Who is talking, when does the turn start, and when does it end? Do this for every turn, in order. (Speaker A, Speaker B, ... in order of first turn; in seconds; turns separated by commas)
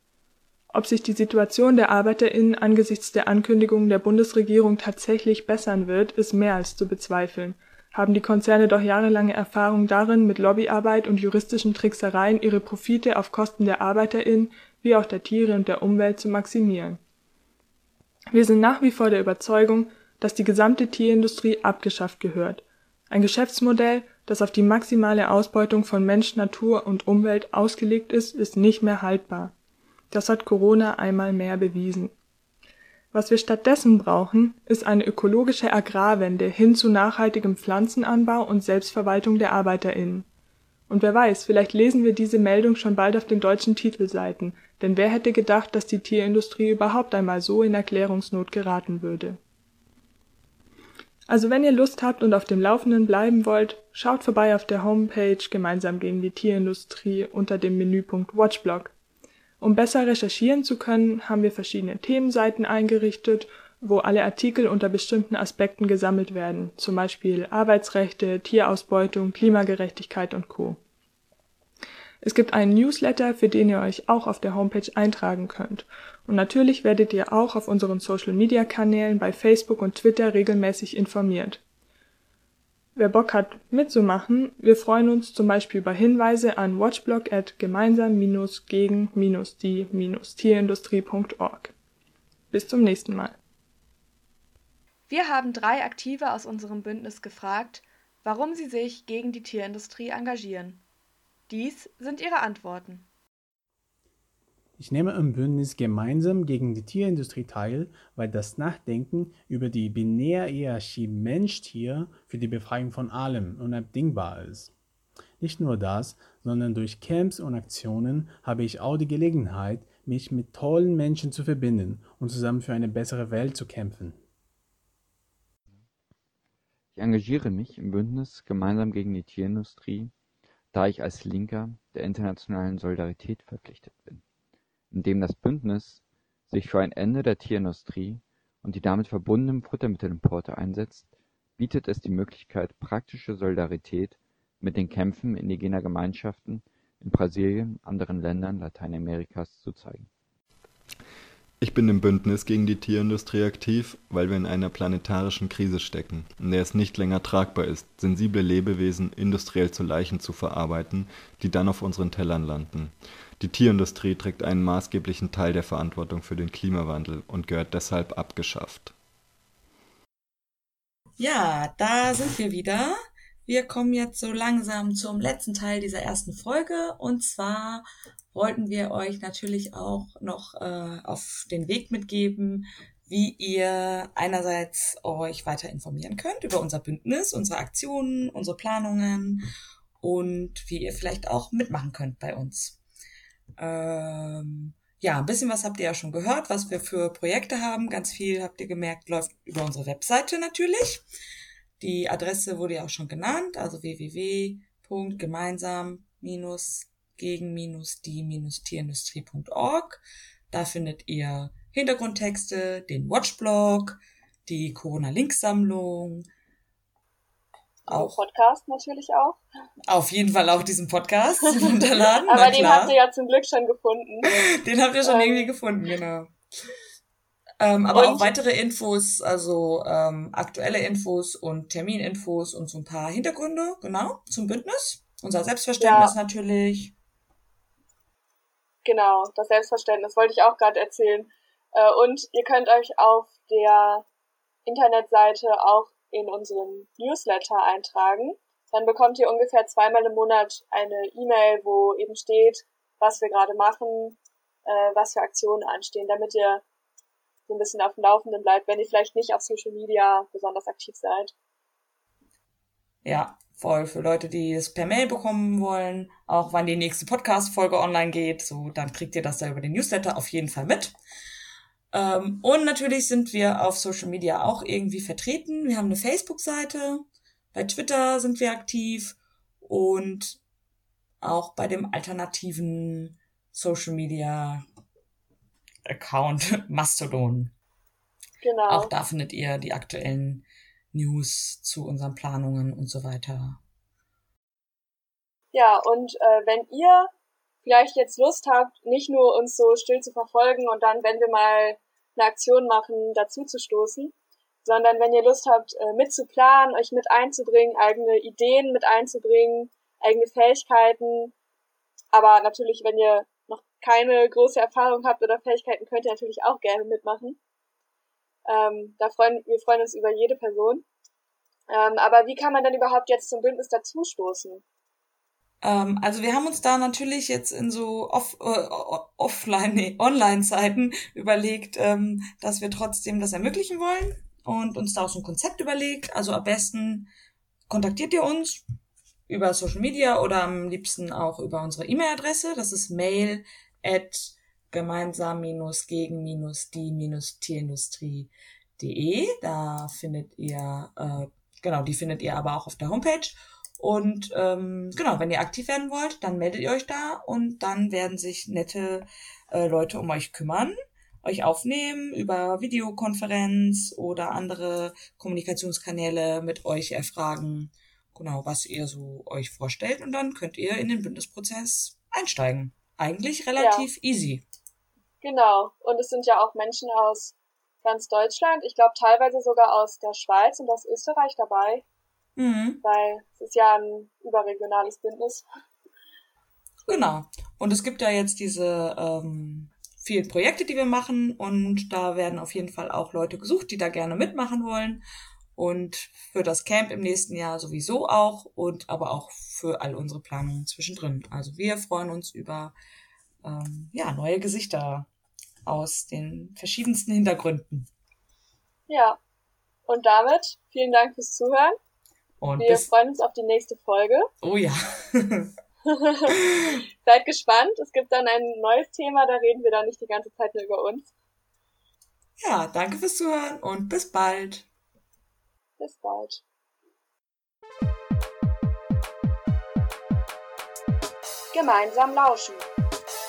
Speaker A: 0.7-17.0, Speaker A: 18.3-29.5, Speaker A: 30.1-32.1, Speaker A: 33.1-40.2, Speaker A: 40.9-49.4, Speaker A: 51.3-58.9, Speaker A: 59.6-70.8, Speaker A: 72.2-81.6, Speaker A: 83.0-91.7, Speaker A: 92.5-93.3, Speaker B: 95.1-100.8, Speaker B: 101.5-103.1, Speaker C: 104.8-114.7, Speaker C: 115.4-124.2, Speaker D: 126.9-130.1, Speaker D: 130.7-134.2, Speaker D: 134.9-150.1, Speaker E: 151.6-168.9, Speaker F: 171.2-189.4, Speaker F: 190.0-192.8, Speaker F: 193.6-201.0, Speaker F: 201.8-216.2, Speaker G: 217.9-219.4, Speaker F: 217.9-218.2, Speaker F: 219.9-222.9, Speaker G: 221.6-224.5, Speaker F: 224.4-226.3, Speaker G: 225.0-225.5, Speaker F: 227.6-236.9, Speaker G: 227.9-228.3, Speaker G: 235.8-236.1, Speaker G: 238.8-244.0, Speaker G: 244.7-256.6, Speaker G: 257.5-261.3, Speaker F: 263.0-270.9, Speaker F: 271.9-280.4, Speaker F: 281.2-284.6, Speaker F: 285.9-287.5, Speaker G: 288.4-288.9, Speaker F: 288.7-293.6, Speaker G: 295.5-297.1, Speaker G: 297.6-304.1, Speaker G: 304.6-311.3, Speaker G: 312.1-317.4, Speaker G: 318.5-320.8, Speaker G: 321.7-324.6, Speaker F: 325.6-337.1, Speaker F: 337.7-338.6, Speaker F: 339.3-374.4, Speaker G: 373.6-373.9, Speaker G: 375.2-381.8, Speaker F: 382.4-382.8, Speaker G: 382.8-385.4, Speaker F: 386.9-395.0, Speaker F: 395.6-402.7, Speaker F: 403.4-405.1, Speaker F: 405.6-407.9, Speaker G: 408.9-409.2, Speaker G: 409.9-411.8, Speaker F: 412.4-412.9, Speaker G: 412.6-414.3, Speaker F: 414.4-415.5, Speaker G: 415.9-416.4, Speaker F: 416.4-416.7, Speaker G: 417.0-421.1, Speaker F: 422.4-424.6, Speaker G: 425.8-426.4, Speaker G: 431.5-432.7